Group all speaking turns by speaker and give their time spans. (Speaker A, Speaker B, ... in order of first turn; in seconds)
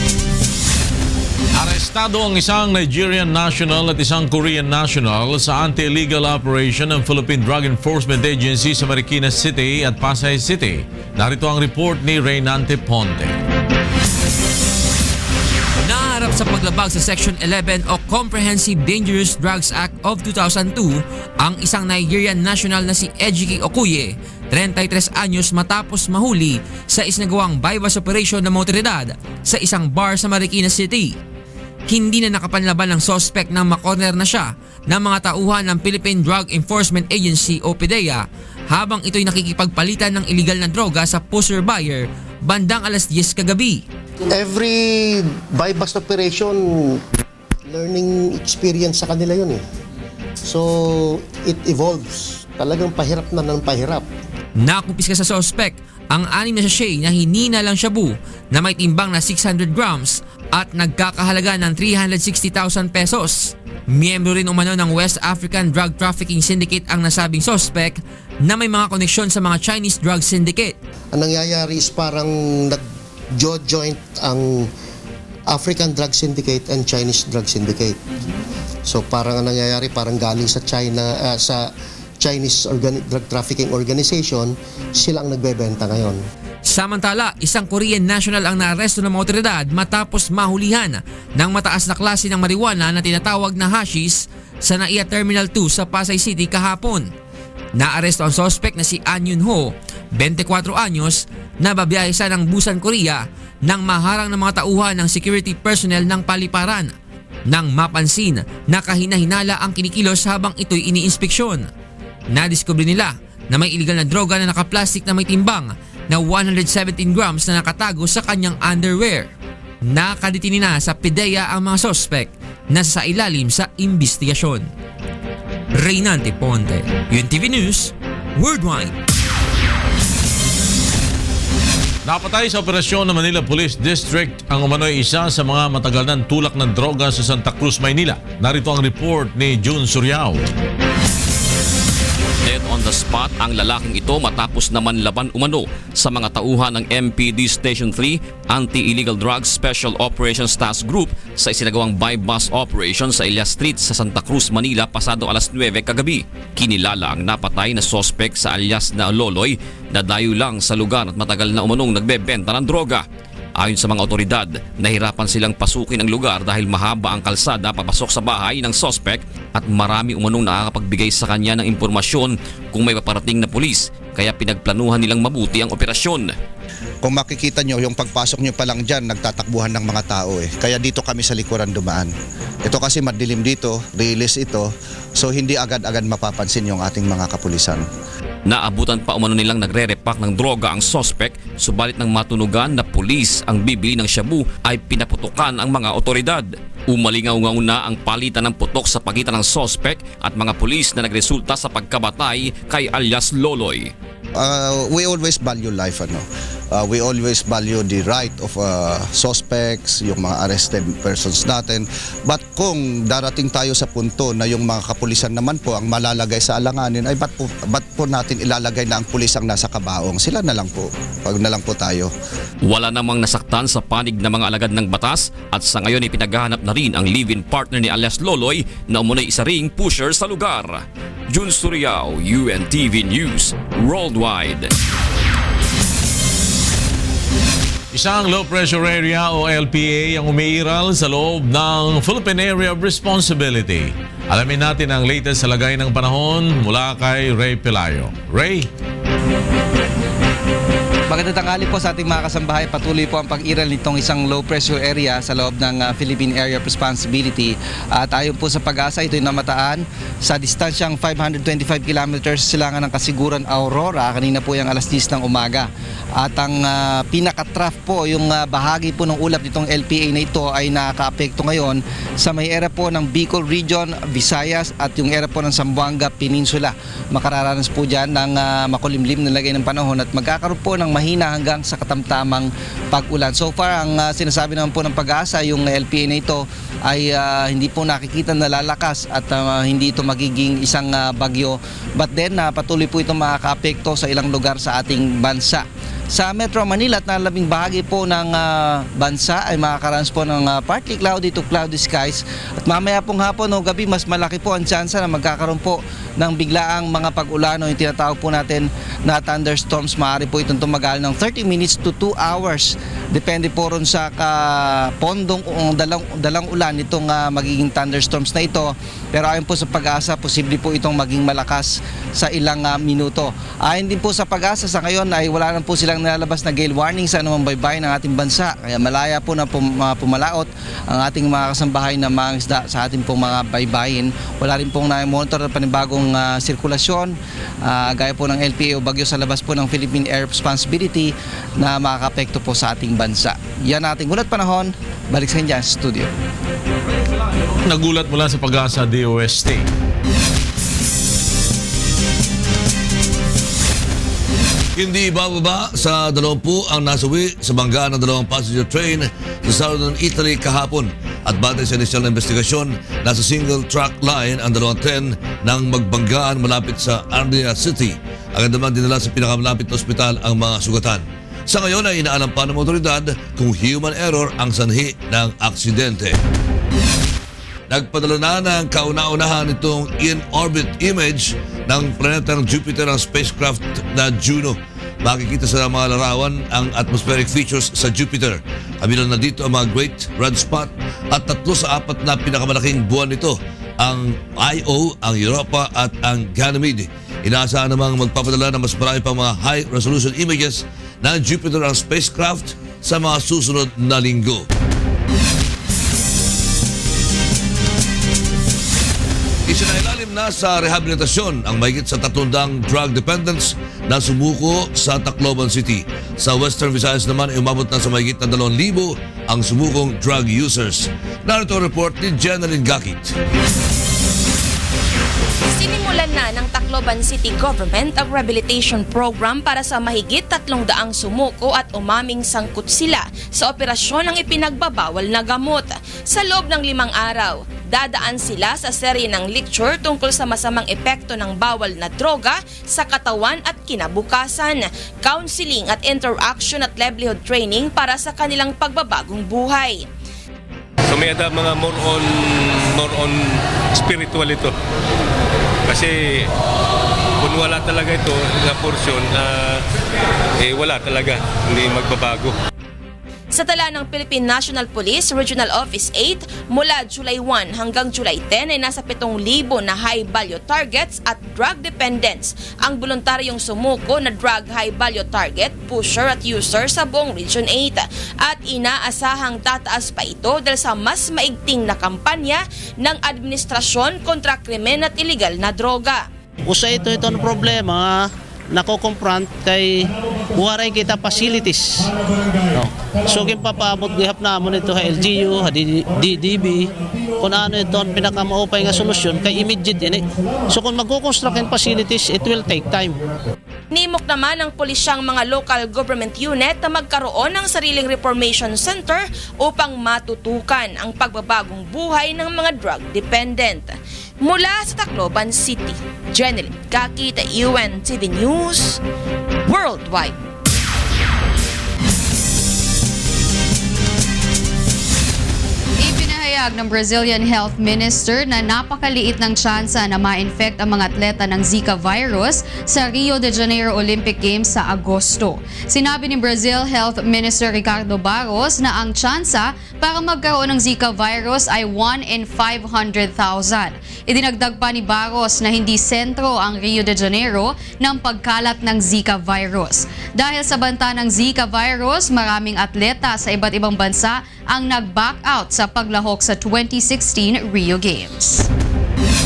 Speaker A: 1.6-13.4, 132.0-140.4, 237.9-248.7, 347.5-349.7
Speaker B: 15.8-31.1, 31.9-43.8, 54.6-70.7, 86.7-97.1, 97.8-106.9, 107.5-111.7, 112.3-119.3, 119.8-124.7, 125.7-129.0
Speaker C: 44.3-47.0, 47.7-49.6, 50.4-54.0, 71.1-72.8, 73.3-74.7, 75.5-78.0, 78.8-81.7, 82.2-86.2
Speaker D: 142.5-163.0, 163.7-169.2, 169.7-176.2, 188.6-196.4, 197.0-203.8, 222.8-230.7, 231.3-234.6
Speaker E: 177.0-182.1, 182.6-187.8, 204.4-222.1
Speaker F: 251.1-346.1
Speaker G: 354.8-376.2, 377.7-404.4, 409.5-423.1
Speaker H: 425.5-449.8, 463.3-486.1, 503.7-518.8, 519.5-520.1
Speaker I: 450.9-454.5, 455.7-456.3, 457.2-459.6, 460.4-462.3
Speaker J: 486.4-491.9, 492.5-503.0
Speaker K: 525.8-558.5